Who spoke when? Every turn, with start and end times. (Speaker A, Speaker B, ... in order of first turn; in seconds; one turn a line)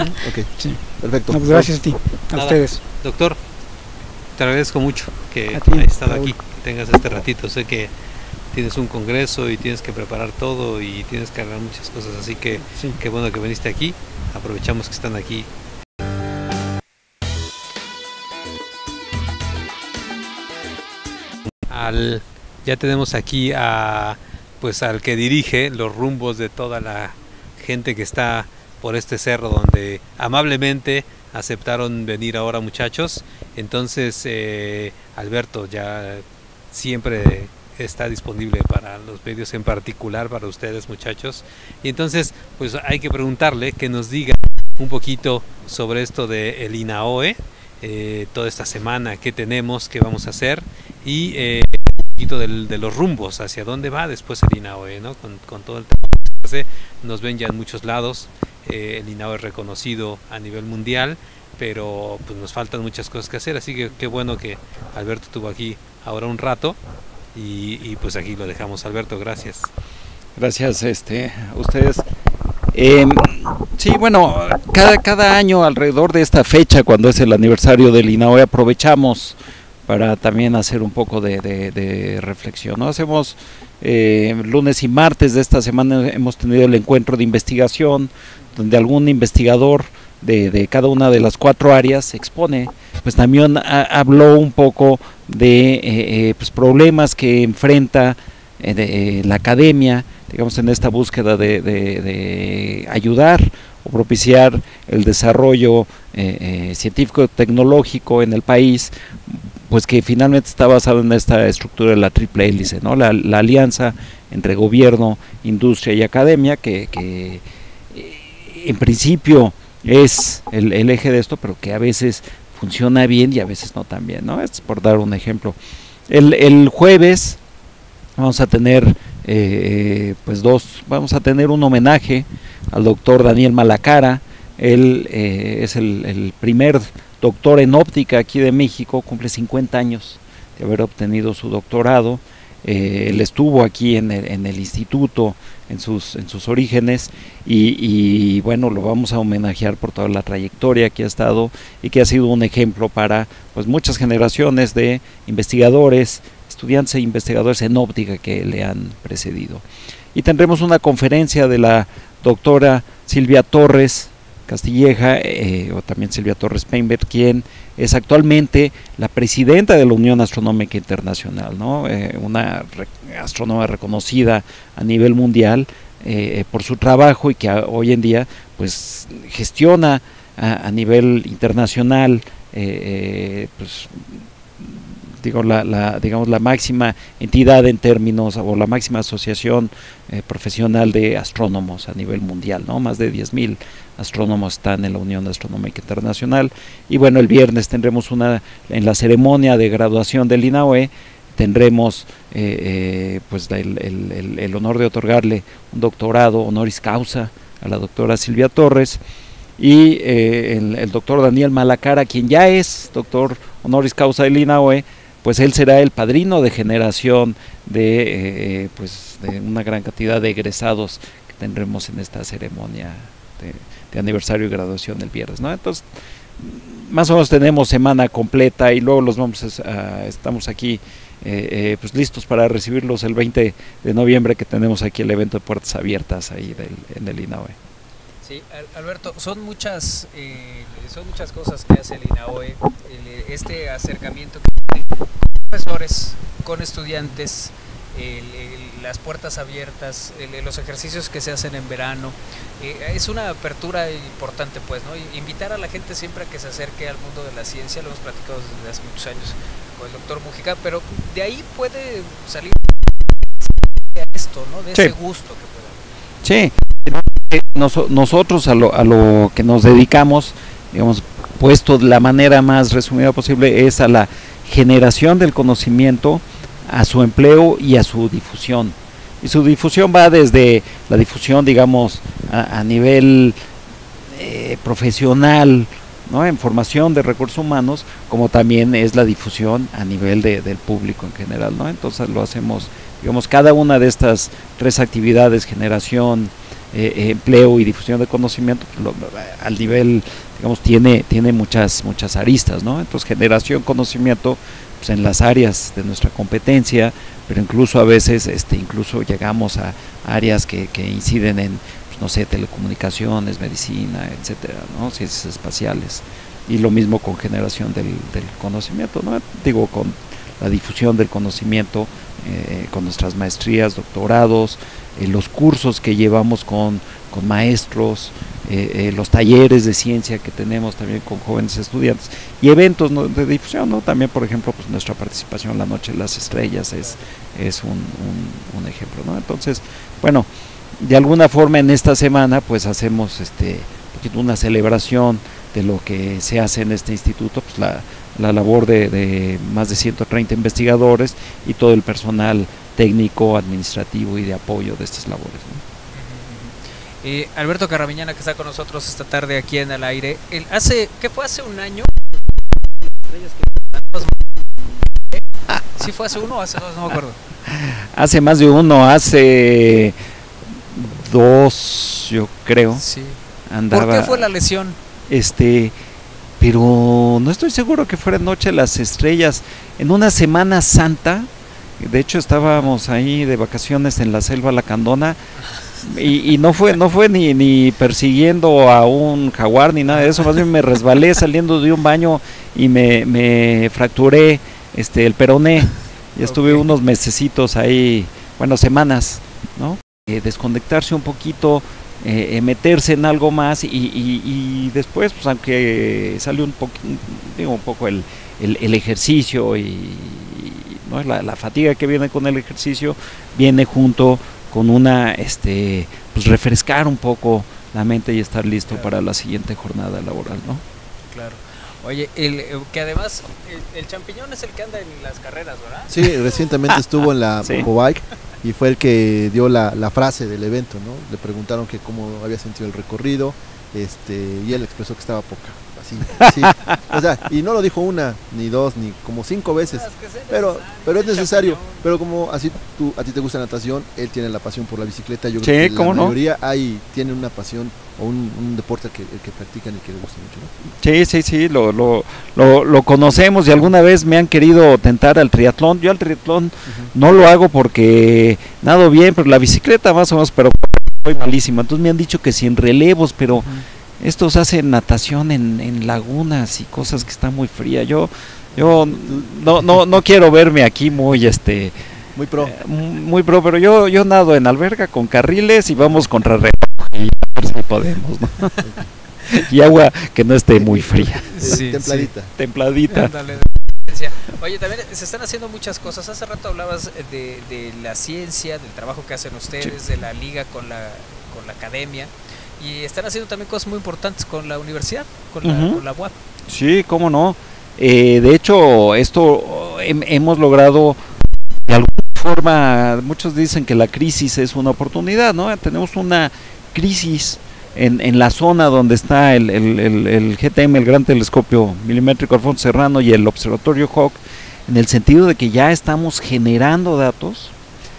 Speaker A: 0.2-1.7
Speaker B: 0.6-2.8
Speaker C: 2.3-3.4
Speaker C: 4.3-7.9
Speaker B: 5.5-6.3
Speaker C: 8.5-15.5
Speaker B: 12.6-13.0
Speaker C: 21.7-66.8
Speaker C: 67.3-69.7
Speaker D: 70.3-72.0
Speaker D: 72.7-125.6
Speaker D: 126.1-127.4
Speaker D: 128.2-209.0
Speaker D: 209.6-225.8
Speaker D: 226.4-237.6
Speaker E: 238.2-265.8
Speaker D: 266.2-283.4
Speaker D: 284.1-340.3
Speaker D: 340.8-355.6
Speaker E: 355.9-365.2
Speaker E: 365.7-367.2
Speaker D: 367.9-369.9
Speaker D: 370.7-372.8
Speaker E: 372.7-373.2
Speaker D: 373.5-374.3
Speaker E: 373.7-374.8
Speaker D: 375.1-375.7
Speaker D: 376.4-381.3
Speaker D: 381.8-385.2
Speaker D: 385.8-420.6
Speaker E: 396.2-396.7
Speaker E: 421.1-425.9
Speaker A: 425.9-450.5
Speaker D: 436.2-436.8
Speaker E: 439.6-441.8
Speaker D: 445.4-446.1
Speaker D: 450.7-463.5
Speaker D: 464.0-471.8
Speaker A: 468.6-469.4
Speaker A: 472.1-472.5
Speaker D: 472.4-478.5
Speaker D: 479.3-481.5
Speaker A: 480.6-482.3
Speaker E: 481.3-482.1
Speaker D: 482.4-483.1
Speaker E: 482.9-496.2
Speaker D: 495.4-495.8
Speaker D: 496.5-501.0
Speaker D: 501.6-517.5